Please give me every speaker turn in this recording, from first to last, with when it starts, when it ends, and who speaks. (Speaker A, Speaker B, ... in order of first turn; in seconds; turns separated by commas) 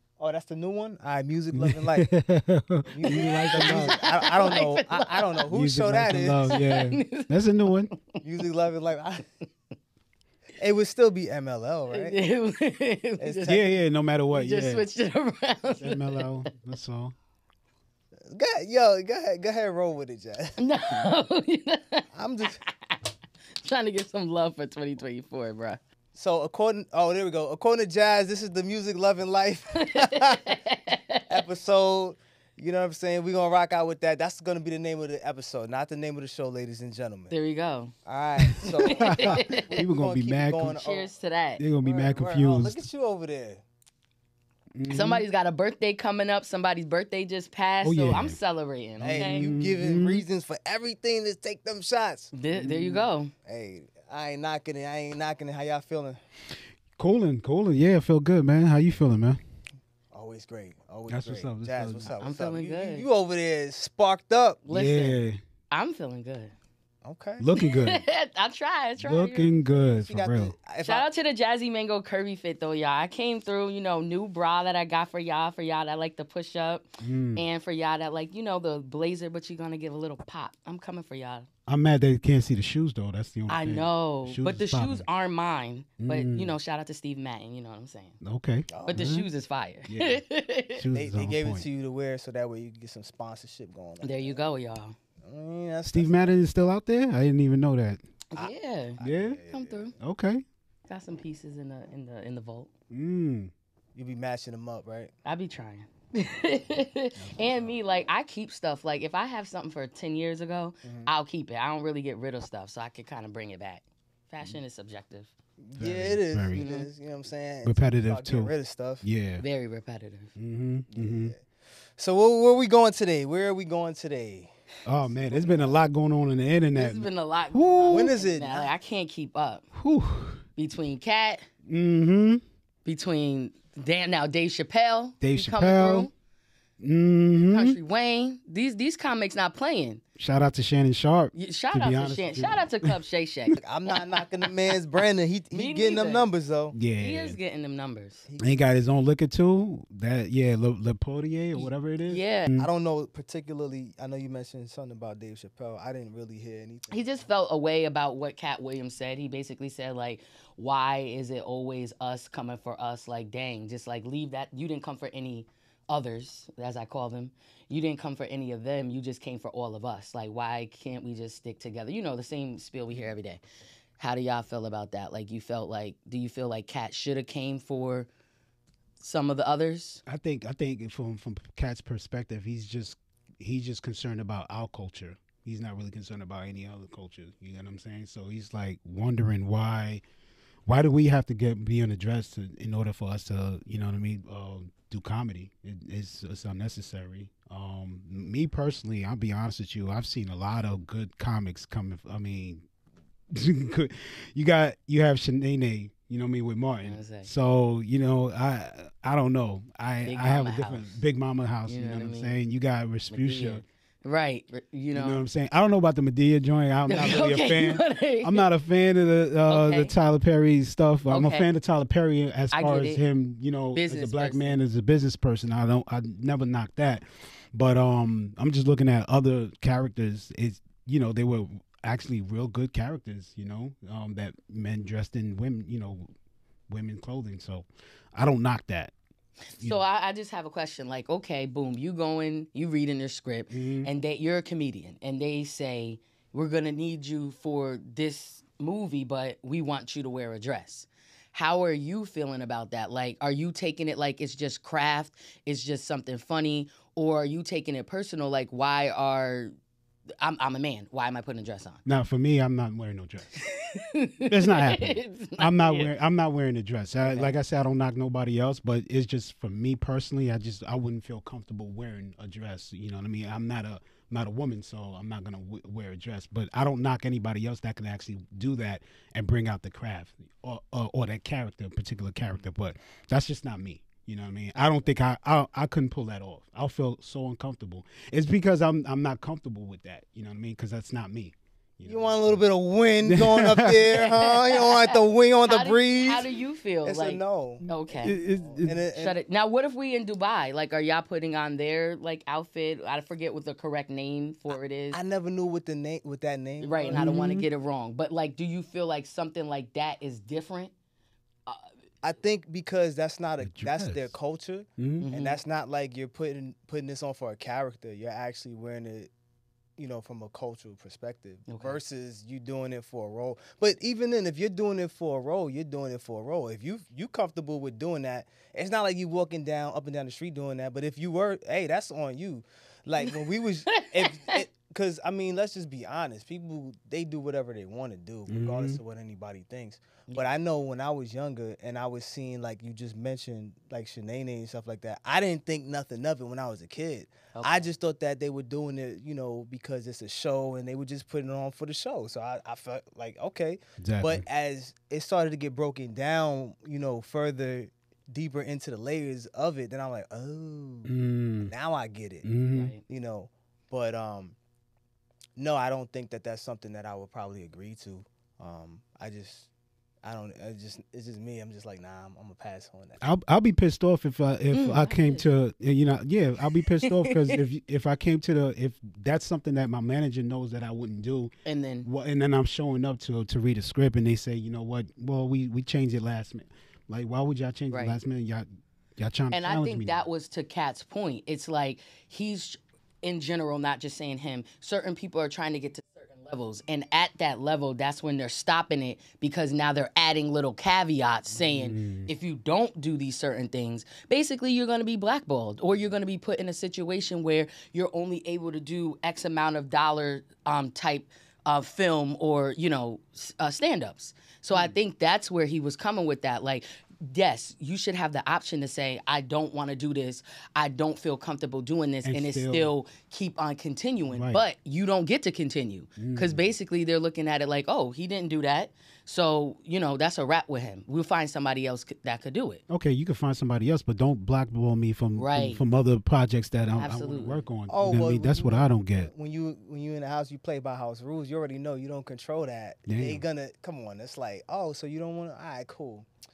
Speaker A: 0.2-2.1, Speaker B: 1.5-4.0, Speaker A: 2.9-6.6, Speaker C: 3.0-5.5, Speaker B: 5.5-7.9, Speaker C: 6.5-8.2, Speaker A: 8.2-9.2, Speaker A: 10.6-12.2, Speaker C: 11.9-13.6, Speaker A: 13.2-13.6, Speaker B: 13.4-14.8, Speaker C: 14.3-16.3, Speaker B: 15.8-17.1, Speaker A: 18.3-20.6, Speaker C: 20.6-22.1, Speaker A: 22.1-22.6, Speaker C: 22.6-23.0, Speaker C: 23.6-25.8, Speaker A: 26.1-30.6, Speaker C: 29.7-31.3, Speaker A: 31.3-37.3, Speaker C: 37.3-37.9, Speaker A: 38.0-41.1, Speaker C: 38.6-39.7, Speaker B: 38.9-40.8, Speaker C: 40.7-41.6, Speaker B: 41.6-42.8, Speaker A: 41.8-43.6, Speaker B: 44.7-45.2, Speaker C: 44.9-49.5, Speaker B: 47.8-48.4, Speaker B: 49.0-50.2, Speaker A: 49.0-52.3, Speaker C: 52.3-53.3, Speaker B: 52.5-53.0, Speaker A: 53.5-56.2, Speaker B: 57.0-59.4, Speaker A: 60.1-64.6, Speaker B: 61.1-62.1, Speaker C: 62.2-63.0, Speaker C: 64.7-65.2, Speaker B: 64.7-65.4, Speaker C: 65.7-66.5, Speaker A: 67.0-67.5, Speaker B: 67.4-68.0, Speaker C: 67.6-69.7, Speaker B: 69.0-70.5, Speaker A: 70.0-71.1, Speaker C: 70.8-81.5, Speaker B: 77.0-77.4, Speaker B: 81.7-85.1, Speaker C: 83.5-88.2, Speaker B: 86.0-86.5, Speaker B: 88.2-89.3, Speaker A: 88.7-89.0, Speaker C: 88.9-90.8, Speaker B: 89.9-90.2, Speaker B: 90.8-91.7, Speaker A: 90.9-94.4, Speaker C: 94.0-95.0, Speaker A: 95.2-96.3, Speaker B: 95.9-98.0, Speaker C: 98.3-99.9, Speaker A: 98.4-99.8, Speaker B: 99.0-99.4, Speaker B: 100.0-100.4, Speaker C: 100.9-102.7, Speaker B: 102.9-103.5, Speaker A: 104.0-105.1, Speaker C: 105.2-115.3, Speaker B: 107.2-107.7, Speaker A: 110.8-111.1, Speaker A: 115.6-119.0, Speaker B: 115.8-116.7, Speaker C: 116.5-116.9, Speaker B: 117.6-119.4, Speaker C: 119.4-120.3, Speaker B: 120.4-121.3, Speaker A: 120.9-121.4, Speaker A: 122.0-125.8, Speaker B: 124.9-128.1, Speaker C: 126.8-129.7, Speaker A: 127.9-128.7, Speaker B: 129.7-130.4, Speaker C: 130.6-131.5, Speaker B: 131.7-132.4, Speaker C: 132.8-136.1, Speaker B: 135.2-136.1, Speaker B: 136.8-137.8, Speaker C: 137.5-140.0, Speaker B: 140.2-142.9, Speaker C: 141.3-143.6, Speaker A: 143.6-146.8, Speaker C: 145.5-146.2, Speaker B: 146.7-147.4, Speaker C: 147.0-148.2, Speaker A: 148.3-148.6, Speaker B: 148.4-152.7, Speaker C: 151.6-152.5, Speaker A: 152.6-157.1, Speaker C: 156.9-173.4, Speaker C: 174.0-178.1, Speaker C: 179.0-180.0, Speaker B: 180.1-190.0, Speaker B: 190.7-202.6, Speaker B: 203.3-213.6, Speaker C: 206.8-207.3, Speaker C: 210.1-210.9, Speaker C: 211.7-212.4, Speaker C: 213.1-215.2, Speaker B: 214.9-236.1, Speaker C: 216.9-218.4, Speaker C: 219.5-219.9, Speaker C: 221.1-221.5, Speaker C: 222.5-223.0, Speaker C: 223.8-224.6, Speaker B: 236.7-238.9, Speaker C: 239.6-259.5, Speaker B: 243.5-243.9, Speaker C: 260.2-261.8, Speaker B: 261.9-263.3, Speaker C: 263.4-265.9, Speaker B: 264.3-292.4, Speaker C: 267.0-267.3, Speaker A: 291.9-296.3, Speaker B: 293.1-294.0, Speaker C: 293.9-298.2, Speaker A: 296.8-297.6, Speaker B: 297.6-298.8, Speaker A: 298.4-299.2, Speaker C: 298.9-305.0, Speaker A: 304.9-307.1, Speaker C: 306.6-310.7, Speaker B: 306.9-307.5, Speaker A: 312.0-319.1, Speaker B: 313.4-314.1, Speaker B: 314.8-315.1, Speaker C: 315.0-315.4, Speaker A: 319.8-360.9, Speaker C: 321.5-321.8, Speaker C: 333.7-334.4, Speaker B: 338.3-338.8, Speaker C: 347.3-347.7, Speaker B: 353.8-354.2, Speaker B: 360.9-361.5, Speaker A: 361.4-362.3, Speaker B: 362.2-362.7, Speaker C: 362.5-362.8, Speaker A: 362.9-364.4, Speaker A: 365.4-369.5, Speaker A: 370.0-373.0, Speaker B: 373.0-381.3, Speaker C: 374.5-375.2, Speaker C: 376.6-377.4, Speaker C: 381.4-381.9, Speaker B: 381.9-390.0, Speaker C: 387.7-388.0, Speaker C: 389.3-432.6, Speaker B: 401.4-402.1, Speaker B: 422.1-422.7, Speaker B: 424.1-424.4, Speaker B: 426.0-426.5, Speaker B: 432.7-439.1, Speaker C: 435.2-435.6, Speaker C: 436.8-437.4, Speaker A: 437.7-446.1, Speaker B: 442.9-443.2